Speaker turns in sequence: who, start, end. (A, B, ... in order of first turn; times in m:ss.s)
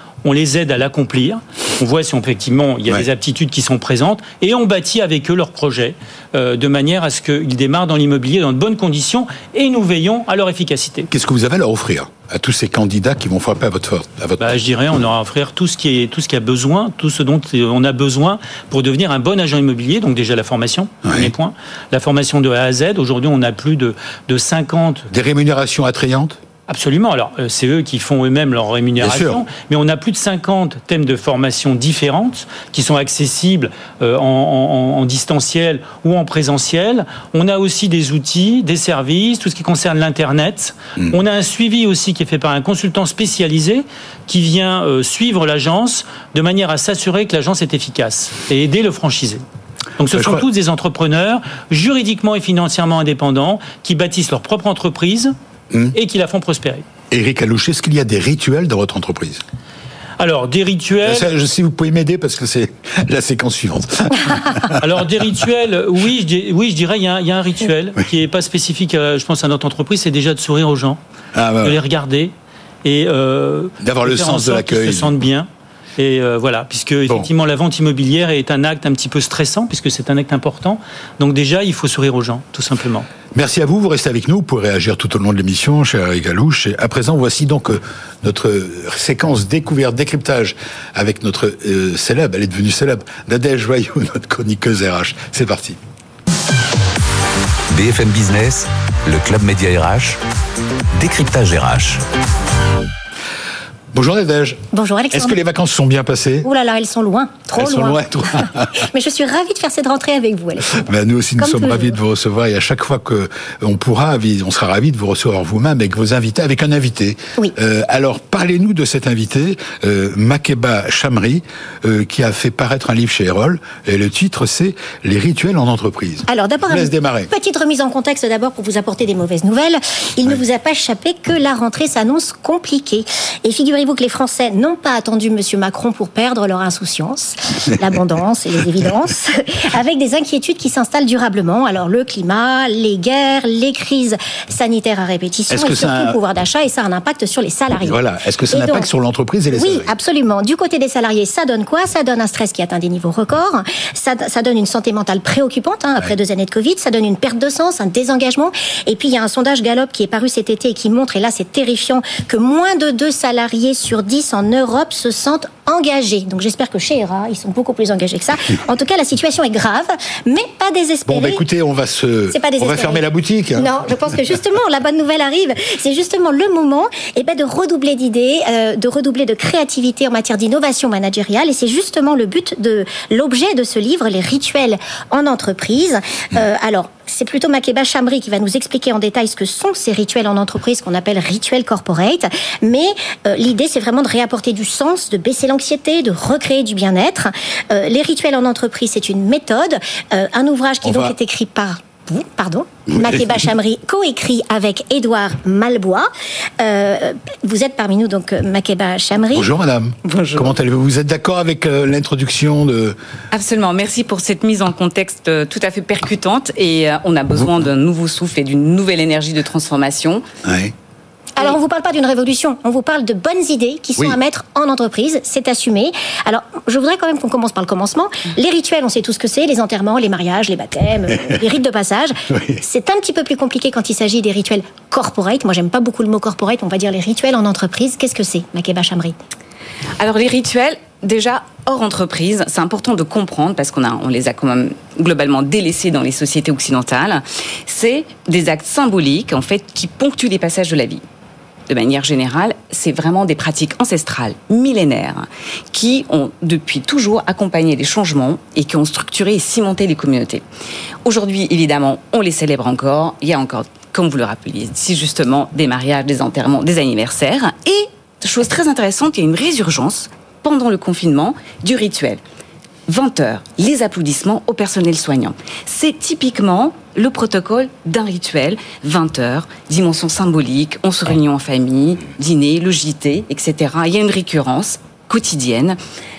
0:00.2-0:11.1 A
0:11.1-0:14.5 B
0:14.4-0:25.1 A
0:21.0-0:21.3 B
0:25.1-0:26.4 B
0:26.7-0:49.4 A
0:29.0-0:29.4 B
0:50.0-0:55.3 A
0:50.1-0:50.4 B
0:55.7-0:56.0 B
0:55.9-0:56.8 A
0:57.1-0:59.4 B
1:00.2-1:01.3 A
1:01.0-1:04.8 B
1:04.7-1:11.0 A
1:11.3-1:11.8 B
1:11.6-1:12.3 A
1:12.8-1:23.1 A
1:13.8-1:15.1 B
1:23.3-1:35.8 B
1:37.7-1:40.2 C
1:40.9-1:42.0 C
1:43.9-1:46.5 B
1:44.7-1:45.4 D
1:46.4-1:50.8 D
1:47.6-1:48.8 B
1:50.7-2:07.3 B
1:51.4-1:51.9 D
2:06.3-2:28.0 D
2:25.5-2:26.2 B
2:27.8-2:29.9 B
2:28.5-2:28.9 D
2:29.6-2:51.4 D
2:51.0-2:53.7 B
2:52.3-2:53.0 D
2:53.6-3:26.1 D
3:20.8-3:21.1 B
3:22.9-3:23.3 B
3:26.6-3:29.5 D
3:29.3-3:33.0 B
3:30.0-3:30.6 E
3:33.3-3:40.2 E
3:40.4-3:40.7 B
3:41.4-3:59.2 D
3:52.3-3:52.6 B
4:00.0-4:11.0 E
4:11.7-4:20.4 E
4:21.0-4:32.2 E
4:32.9-4:45.8 E